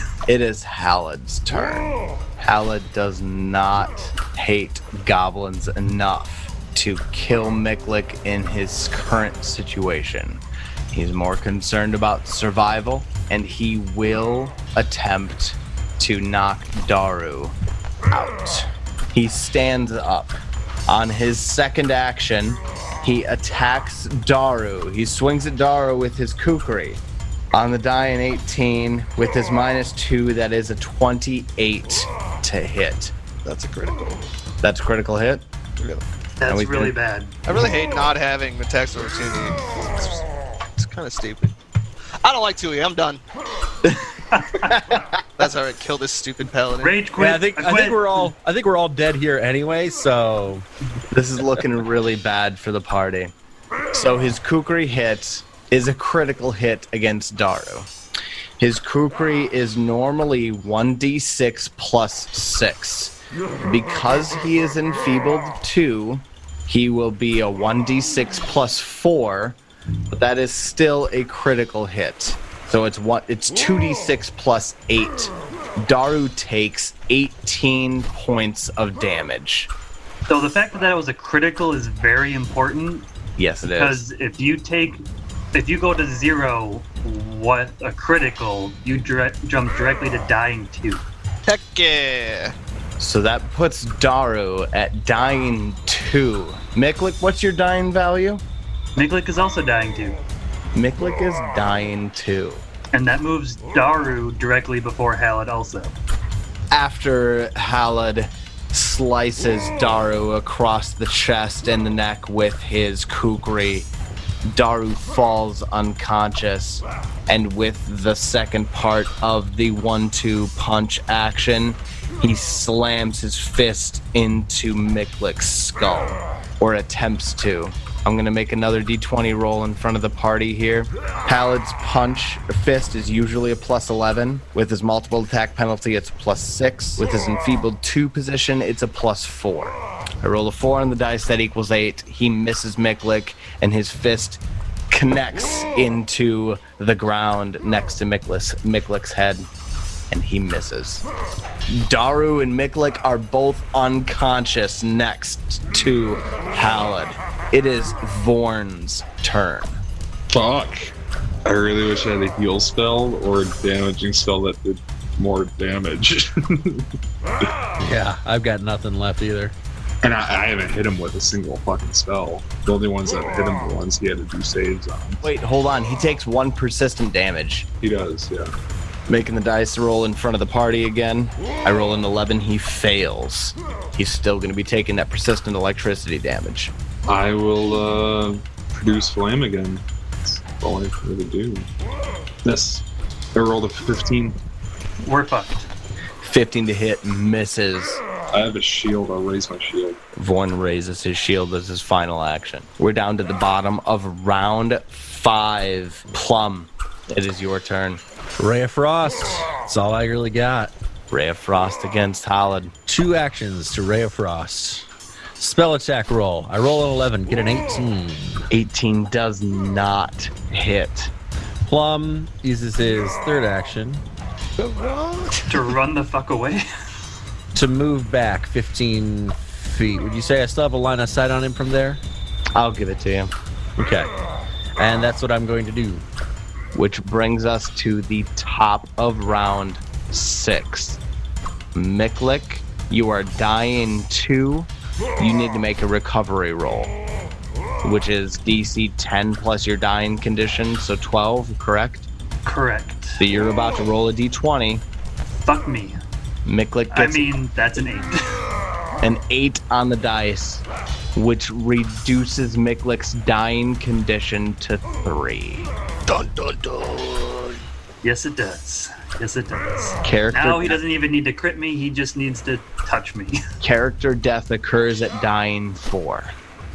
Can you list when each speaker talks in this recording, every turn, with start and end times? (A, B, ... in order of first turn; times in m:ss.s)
0:00.3-0:17.5 A
0:18.1-0:27.0 A
0:27.5-0:33.1 A
0:33.4-0:34.2 B
0:34.6-0:35.4 A
0:36.4-0:37.4 C
0:36.5-0:36.9 A
0:37.4-0:40.2 B
0:40.8-0:41.5 B
0:42.2-0:43.2 B
0:44.3-0:44.7 C
0:44.6-0:45.2 A
0:45.4-0:46.9 B
0:46.8-0:48.3 C
0:47.2-0:50.6 D
0:51.1-0:53.3 A
0:53.9-0:57.9 A
0:58.6-1:09.6 A
1:10.1-1:19.7 A
1:20.3-1:23.1 C
1:23.4-1:24.0 A
1:23.7-1:31.0 C
1:31.4-1:32.5 B
1:33.0-1:38.4 A
1:39.0-1:40.2 C
1:40.7-1:42.6 A
1:42.9-1:45.9 C
1:46.7-1:53.9 A
1:54.4-2:29.5 A
2:30.1-2:31.0 A
2:31.7-2:39.8 A
2:40.3-2:40.9 E
2:41.4-2:46.9 E
2:47.8-2:49.5 D
2:50.0-2:55.2 E
2:55.2-2:57.7 A
2:57.8-2:58.5 E
2:59.1-3:06.7 A
3:07.1-3:11.7 E
3:12.4-3:14.4 E
3:15.0-3:15.7 C
3:16.2-3:18.0 A
3:18.3-3:20.0 E
3:20.2-3:28.0 A
3:28.4-3:30.7 D
3:31.1-3:32.7 A
3:32.9-3:34.8 D
3:35.4-3:38.5 D
3:38.5-3:41.1 A
3:41.6-3:44.0 D
3:44.6-3:45.5 B
3:45.5-3:46.6 C
3:47.5-3:52.0 D
3:52.6-3:53.3 A
3:53.8-3:54.1 D
3:54.8-3:56.0 D
3:56.7-4:01.0 A
4:01.7-4:06.9 A
4:07.8-4:12.1 A
4:12.4-4:13.2 C
4:13.2-4:14.8 A
4:15.4-4:16.0 C
4:16.4-4:17.3 A
4:16.9-4:18.2 C
4:19.0-4:20.6 A
4:21.1-4:25.7 A
4:26.1-4:27.6 B
4:28.0-4:33.4 C
4:30.0-4:30.8 A
4:33.6-4:36.3 A